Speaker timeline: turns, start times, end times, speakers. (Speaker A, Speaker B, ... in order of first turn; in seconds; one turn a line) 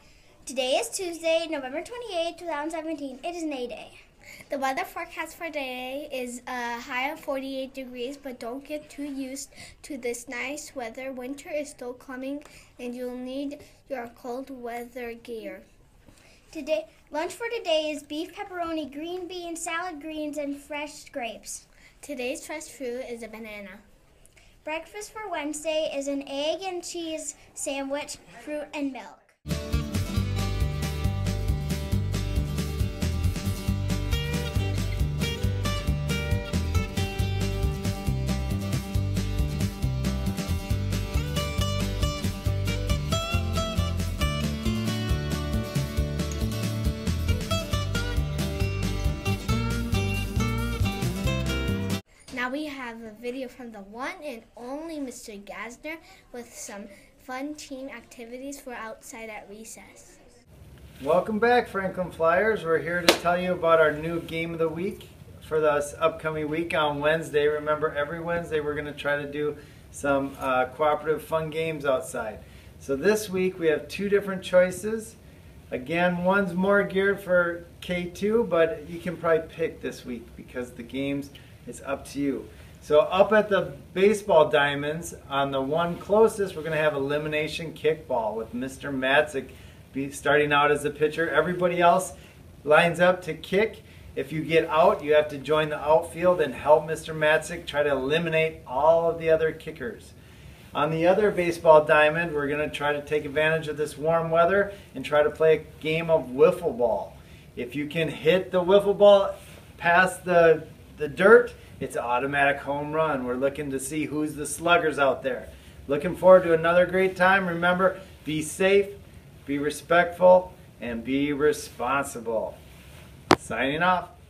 Speaker A: 0.5-4.0
Speaker B: 4.5-15.7
Speaker A: 16.5-21.6
Speaker B: 22.0-23.8
Speaker A: 24.6-29.3
Speaker B: 52.3-60.2
Speaker C: 61.0-75.2
Speaker C: 75.7-100.1
Speaker C: 100.7-122.6
Speaker C: 123.3-124.1